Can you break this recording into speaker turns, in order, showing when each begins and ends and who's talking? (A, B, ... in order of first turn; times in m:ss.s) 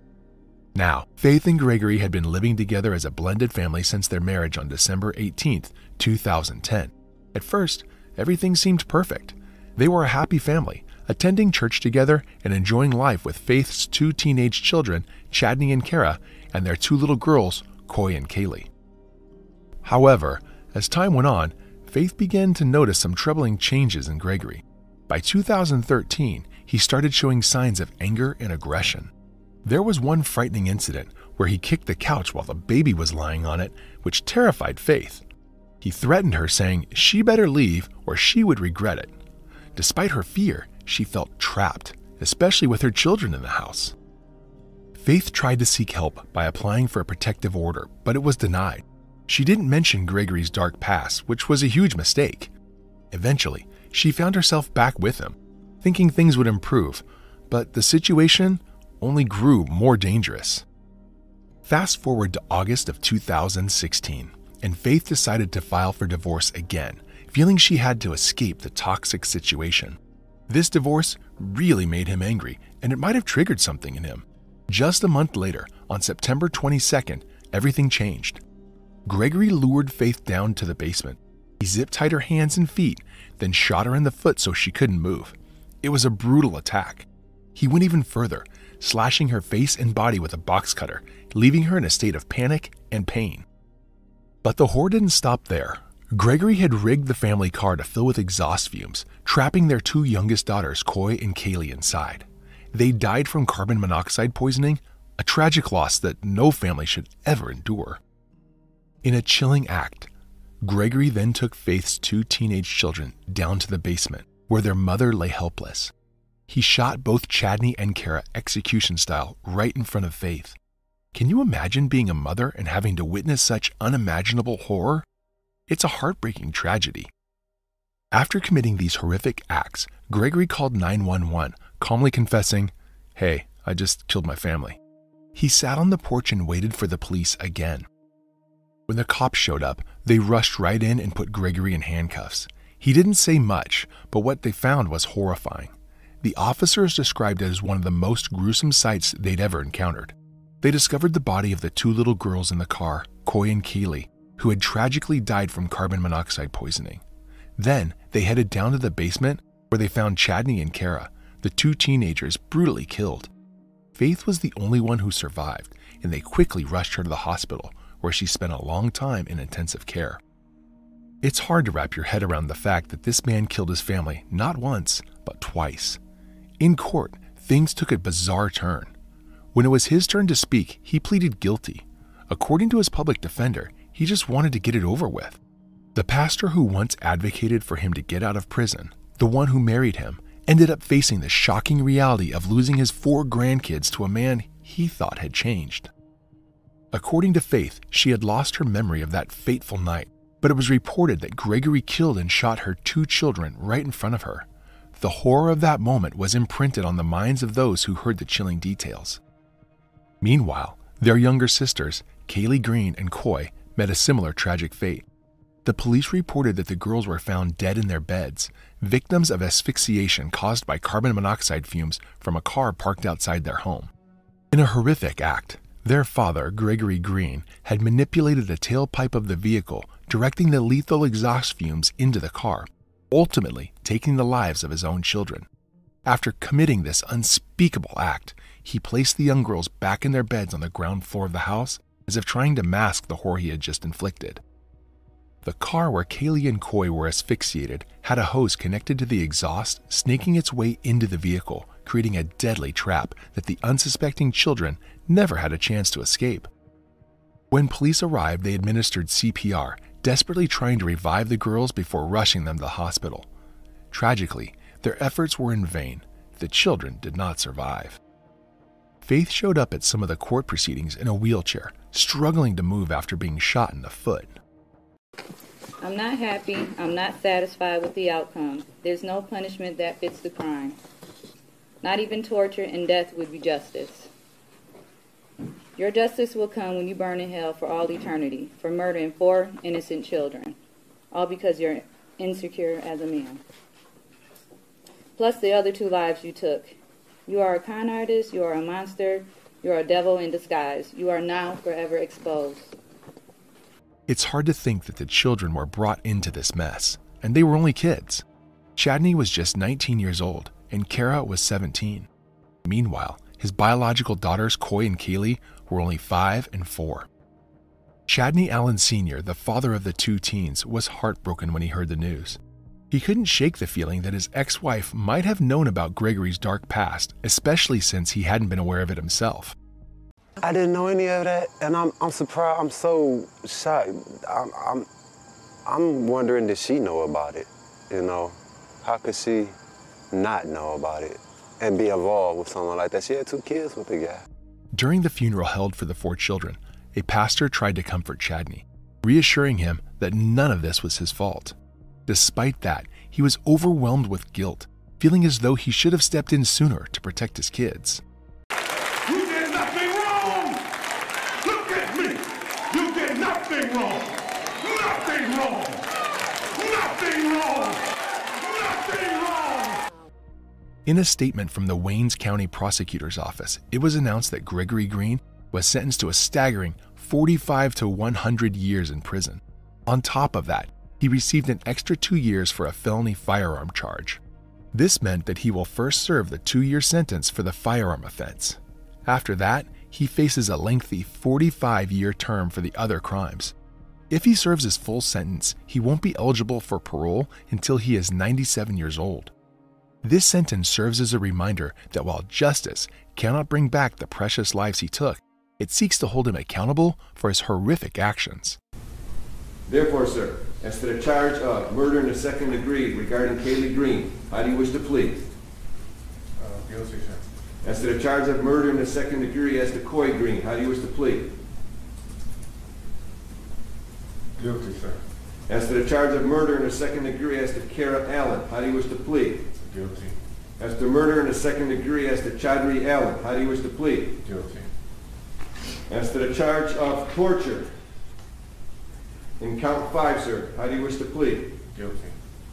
0:00.7-0:18.7 A
0:19.8-0:29.1 A
0:29.6-0:35.2 A
0:35.8-0:39.1 A
0:39.8-0:43.9 A
0:45.0-0:52.5 A
0:53.1-1:00.6 A
1:01.6-1:10.0 A
1:10.5-1:18.4 A
1:19.0-1:33.4 A
1:34.4-1:48.0 A
1:49.0-1:50.1 A
1:50.6-1:55.9 A
1:56.5-2:00.6 A
2:01.1-2:05.0 A
2:05.7-2:07.1 A
2:08.1-2:14.8 A
2:15.3-2:17.8 A
2:18.9-2:37.0 A
2:37.6-2:43.3 A
2:43.9-2:50.2 A
2:51.2-2:56.0 A
2:56.6-2:58.9 A
2:59.5-3:05.4 A
3:05.9-3:15.9 A
3:16.9-3:29.2 A
3:30.2-3:35.0 A
3:35.6-3:43.9 A
3:44.5-3:55.5 A
3:56.0-4:04.4 A
4:05.4-4:16.5 A
4:17.5-4:23.3 A
4:23.9-4:28.0 A
4:29.0-4:34.3 A
4:35.8-4:40.8 B
4:41.8-4:44.1 B
4:45.8-4:50.6 B
4:51.1-4:53.4 B
4:55.2-4:56.8 B
4:57.3-5:02.7 B
5:04.1-5:08.2 A
5:08.8-5:12.1 A
5:12.6-5:17.1 A
5:18.1-5:22.4 A
5:22.9-5:29.6 A
5:30.4-5:34.9 C
5:35.6-5:39.5 C
5:40.1-5:44.2 C
5:44.7-5:51.6 A
5:52.1-5:58.0 A
5:59.1-6:00.3 D
6:01.4-6:02.2 D
6:02.8-6:04.0 D
6:04.6-6:05.8 D
6:06.6-6:07.8 D
6:10.8-6:24.2 A
6:24.7-6:33.5 A
6:34.1-6:39.3 A
6:40.0-6:48.6 A
6:49.7-6:55.2 E
6:56.4-6:57.2 D
6:57.7-7:01.2 E
7:04.4-7:05.0 D
7:05.5-7:09.4 E
7:09.6-7:10.1 D
7:10.6-7:14.1 E
7:14.2-7:14.7 D
7:15.9-7:17.6 E
7:19.4-7:21.5 E
7:21.7-7:22.1 D